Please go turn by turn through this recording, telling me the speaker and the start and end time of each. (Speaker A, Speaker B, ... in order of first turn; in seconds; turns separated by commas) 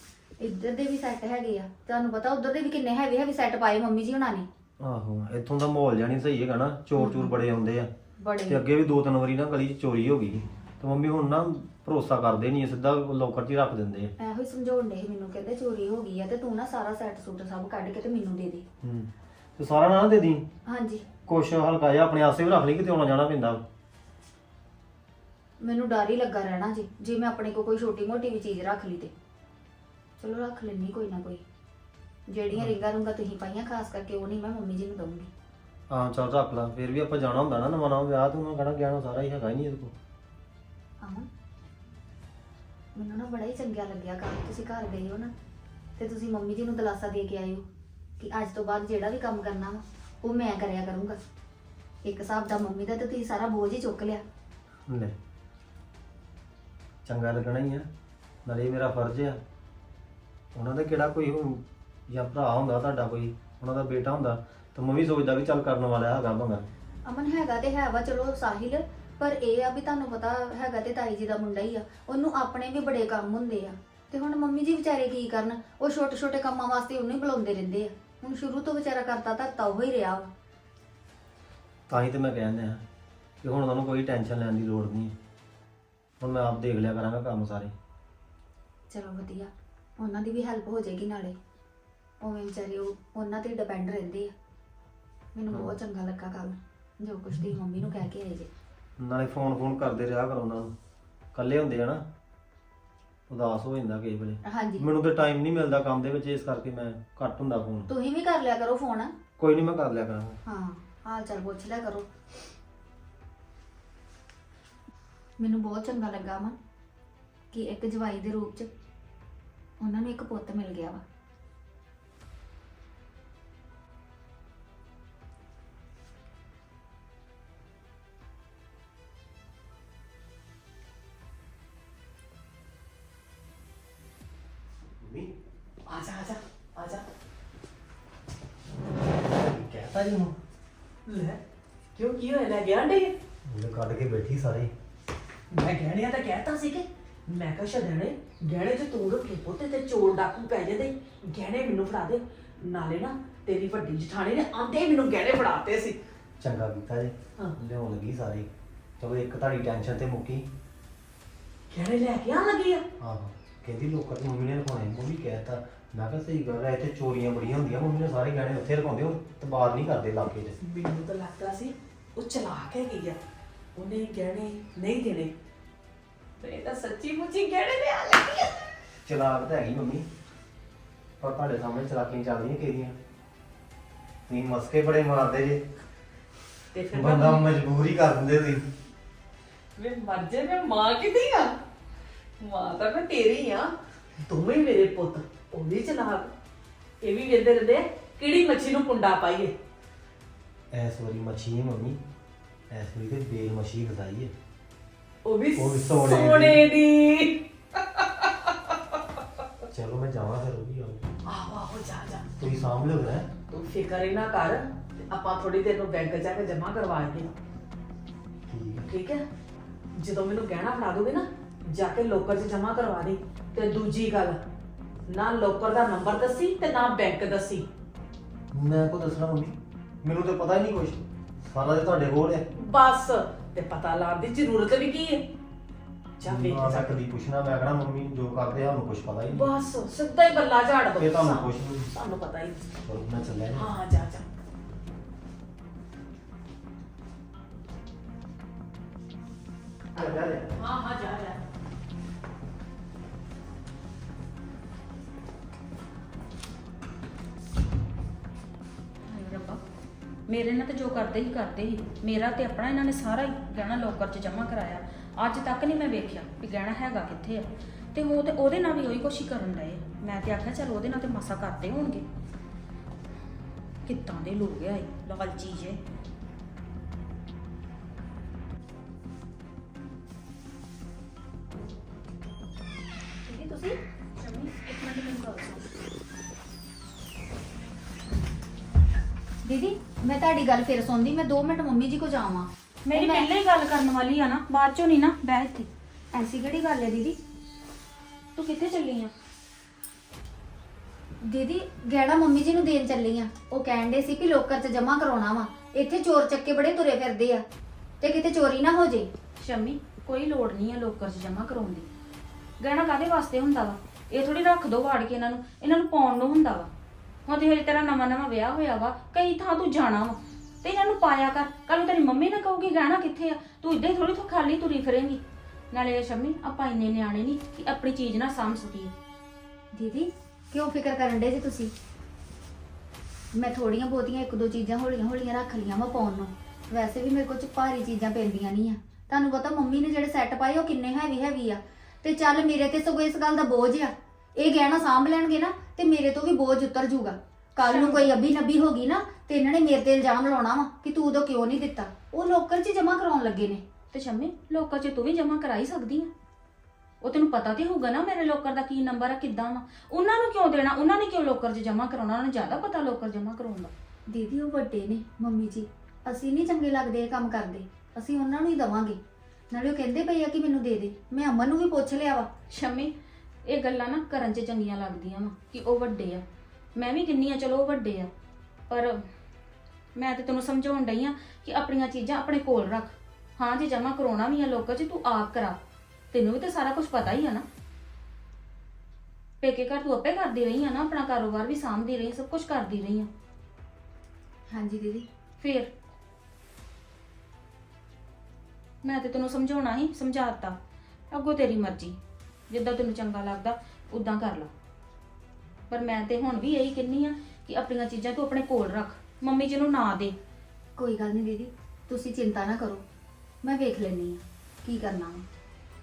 Speaker A: 0.4-4.5, Speaker B: 4.8-7.9, Speaker A: 7.0-7.3, Speaker A: 8.2-8.6, Speaker B: 8.5-14.1, Speaker A: 14.2-18.6, Speaker B: 18.8-20.4, Speaker A: 20.7-21.1, Speaker B: 21.2-23.6, Speaker A: 25.6-29.1, Speaker A: 30.2-31.4, Speaker A: 32.3-35.3, Speaker B: 35.9-39.9, Speaker A: 41.0-41.3, Speaker A: 43.0-45.3, Speaker A: 46.0-47.6, Speaker A: 48.2-51.2, Speaker A: 52.0-54.2, Speaker B: 54.9-55.1, Speaker B: 57.0-57.9, Speaker B: 58.5-59.4, Speaker B: 60.5-66.7, Speaker A: 67.0-80.3, Speaker B: 81.9-82.8, Speaker B: 83.4-85.2, Speaker B: 86.2-87.7, Speaker A: 88.9-91.4, Speaker A: 92.2-94.3, Speaker A: 95.3-98.5, Speaker B: 99.0-100.7, Speaker B: 101.3-102.0, Speaker B: 103.3-107.9, Speaker A: 104.5-104.8, Speaker A: 107.9-109.1, Speaker B: 109.4-110.4, Speaker A: 110.5-112.1, Speaker A: 115.4-116.6, Speaker A: 117.5-118.7, Speaker A: 119.8-121.0, Speaker B: 135.0-135.3, Speaker C: 135.9-137.0, Speaker B: 139.1-140.4, Speaker C: 141.1-141.4, Speaker C: 141.9-143.1, Speaker B: 143.5-144.7, Speaker C: 145.5-156.0, Speaker B: 156.4-160.5, Speaker C: 161.7-162.8, Speaker B: 163.0-170.6, Speaker C: 170.6-173.2, Speaker C: 173.8-175.3, Speaker C: 176.4-178.6, Speaker B: 179.1-180.1, Speaker B: 181.2-183.0, Speaker B: 184.3-185.6, Speaker C: 186.7-187.5, Speaker B: 186.9-188.7, Speaker C: 189.8-191.6, Speaker C: 192.4-193.7, Speaker C: 194.2-196.3, Speaker C: 197.0-199.5, Speaker B: 200.7-202.0, Speaker B: 202.7-204.3, Speaker C: 205.2-208.8, Speaker B: 205.6-206.7, Speaker B: 209.7-211.0, Speaker C: 211.3-212.2, Speaker B: 212.4-213.3, Speaker C: 213.5-217.3, Speaker B: 218.5-218.9, Speaker C: 218.8-219.2, Speaker C: 220.0-224.4, Speaker C: 225.1-227.7, Speaker B: 228.5-232.5, Speaker C: 232.6-235.2, Speaker C: 236.2-237.0, Speaker B: 236.2-239.5, Speaker C: 239.3-242.7, Speaker B: 241.0-241.9, Speaker B: 242.8-243.7, Speaker C: 243.5-244.2, Speaker B: 249.9-250.5, Speaker C: 250.6-251.4, Speaker D: 259.1-259.6, Speaker D: 260.3-272.1, Speaker D: 273.9-275.8, Speaker D: 283.3-285.6, Speaker A: 289.4-293.3, Speaker D: 292.9-295.7, Speaker A: 296.1-297.2, Speaker D: 298.4-299.1, Speaker A: 301.3-307.4, Speaker A: 308.0-309.1, Speaker D: 309.4-311.9, Speaker D: 312.6-316.7, Speaker D: 317.3-328.9, Speaker A: 329.7-331.7, Speaker A: 333.3-353.6, Speaker D: 347.6-348.1, Speaker D: 353.9-356.1, Speaker D: 357.0-363.7, Speaker A: 364.1-369.0, Speaker A: 369.5-372.3, Speaker D: 372.5-372.9, Speaker D: 373.4-376.2, Speaker D: 376.8-378.1, Speaker D: 378.7-379.0, Speaker D: 379.9-385.6, Speaker D: 386.1-387.4, Speaker D: 389.4-393.1, Speaker A: 394.5-395.1, Speaker D: 395.4-395.7, Speaker D: 398.8-400.6, Speaker D: 401.1-402.0, Speaker D: 402.5-404.5, Speaker D: 405.7-410.2, Speaker A: 410.8-412.8, Speaker A: 413.4-415.2